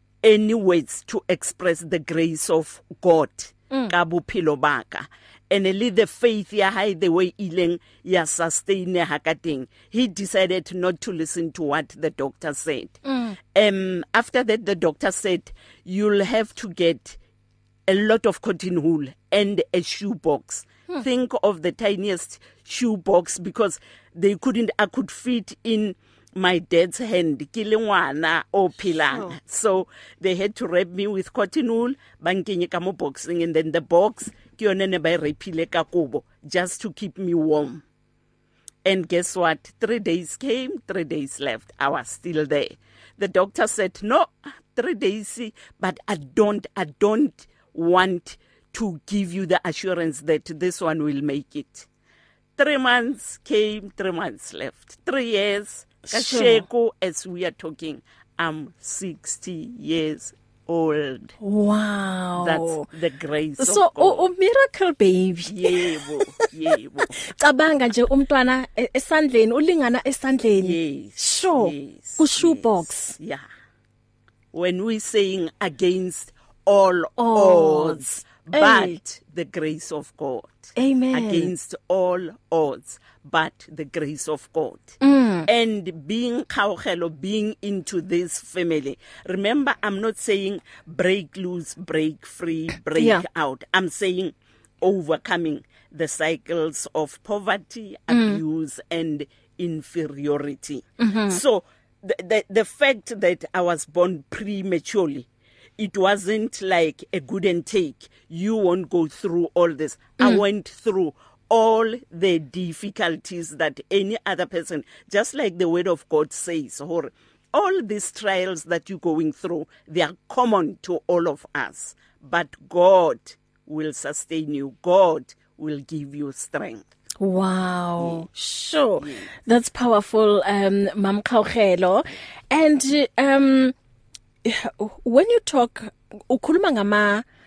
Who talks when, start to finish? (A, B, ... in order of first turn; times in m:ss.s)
0:00.2-0:13.0 A
0:13.0-0:13.4 B
0:13.5-0:17.2 A
0:17.9-0:37.8 A
0:29.1-0:29.4 B
0:38.8-0:51.9 A
0:52.6-1:01.4 A
0:56.1-0:56.7 B
1:01.4-1:02.9 B
1:02.4-1:04.3 A
1:03.6-1:06.5 B
1:05.5-1:07.2 A
1:07.2-1:13.2 B
1:10.6-1:13.5 A
1:14.5-1:24.9 A
1:17.2-1:19.0 B
1:20.8-1:21.5 B
1:25.0-1:25.5 B
1:25.5-1:45.3 A
1:33.0-1:33.2 B
1:38.1-1:38.4 B
1:41.0-1:41.4 B
1:45.8-2:06.8 A
2:07.2-2:13.7 B
2:08.0-2:08.2 A
2:09.0-2:09.2 A
2:14.4-2:17.2 B